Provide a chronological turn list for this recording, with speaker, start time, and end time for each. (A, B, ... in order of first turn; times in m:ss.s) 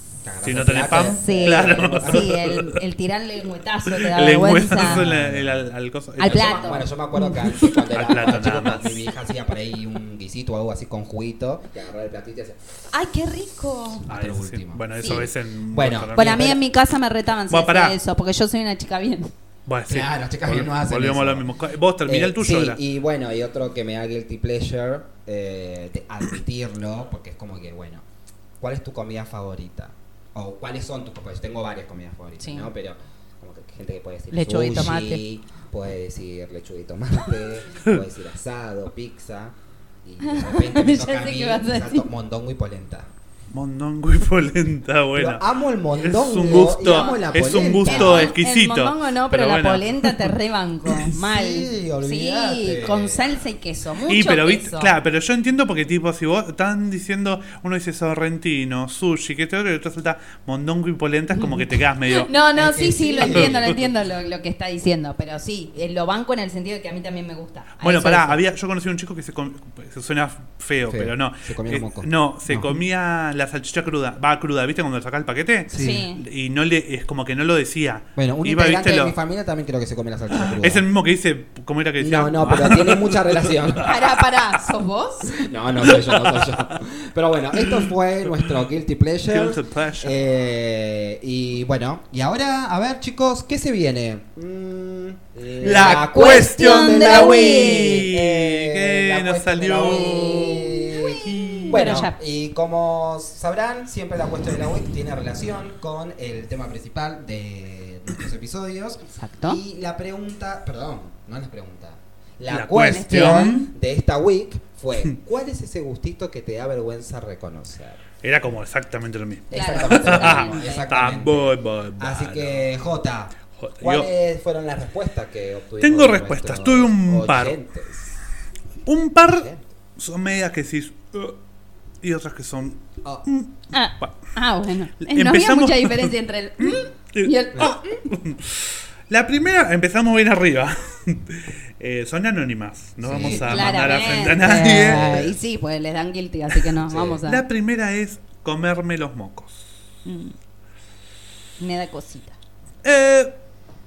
0:00.2-0:02.4 A
0:00.4-0:02.8 B
0:00.9-0:05.0 C
0:03.9-0:06.8 B
0:04.8-0:05.7 A
0:06.2-0:07.8 C
0:06.2-0:12.6 A
0:07.6-0:09.1 B
0:12.9-0:14.1 C
0:14.1-0:16.6 A
0:14.1-0:16.6 B
0:15.0-0:15.3 C
0:16.1-0:19.3 C
0:17.5-0:18.0 B
0:19.7-0:22.8 B
0:19.9-0:21.5 A
0:22.0-0:28.0 A
0:28.6-0:43.1 A
0:32.4-0:32.7 C
0:34.3-0:35.2 C
0:40.2-0:42.1 C
0:43.5-0:45.4 B
0:45.2-0:48.4 A
0:46.0-0:50.4 B
0:46.6-0:54.9 C
0:51.2-0:53.4 A
0:54.1-1:02.3 B
1:01.3-1:08.4 C
1:02.6-1:03.8 A
1:03.2-1:03.8 B
1:07.8-1:19.2 B
1:10.9-1:12.8 A
1:15.7-1:16.1 A
1:15.7-1:16.2 C
1:18.2-1:20.8 A
1:20.4-1:24.1 B
1:22.0-1:23.9 A
1:23.8-1:25.5 C
1:25.3-1:58.0 A
1:25.8-1:26.7 B
1:27.5-1:28.5 B
1:29.3-1:30.2 B
1:35.6-1:40.7 B
1:35.7-1:38.0 C
1:39.8-1:42.2 C
1:41.2-1:42.0 B
1:49.1-1:49.6 C
1:52.5-1:53.7 B
1:52.9-1:53.6 C
1:58.2-2:02.7 B
1:59.5-2:00.9 C
1:59.5-2:08.1 A
2:03.6-2:04.1 B
2:05.8-2:07.6 B
2:08.9-2:11.4 B
2:09.3-2:09.6 A
2:12.0-2:14.1 B
2:13.7-2:18.0 C
2:15.0-2:25.3 B
2:23.0-2:25.4 A
2:23.3-2:27.4 C
2:26.9-2:27.2 A
2:27.2-2:29.7 B
2:30.0-2:30.3 C
2:31.6-2:32.4 C
2:32.8-2:33.3 B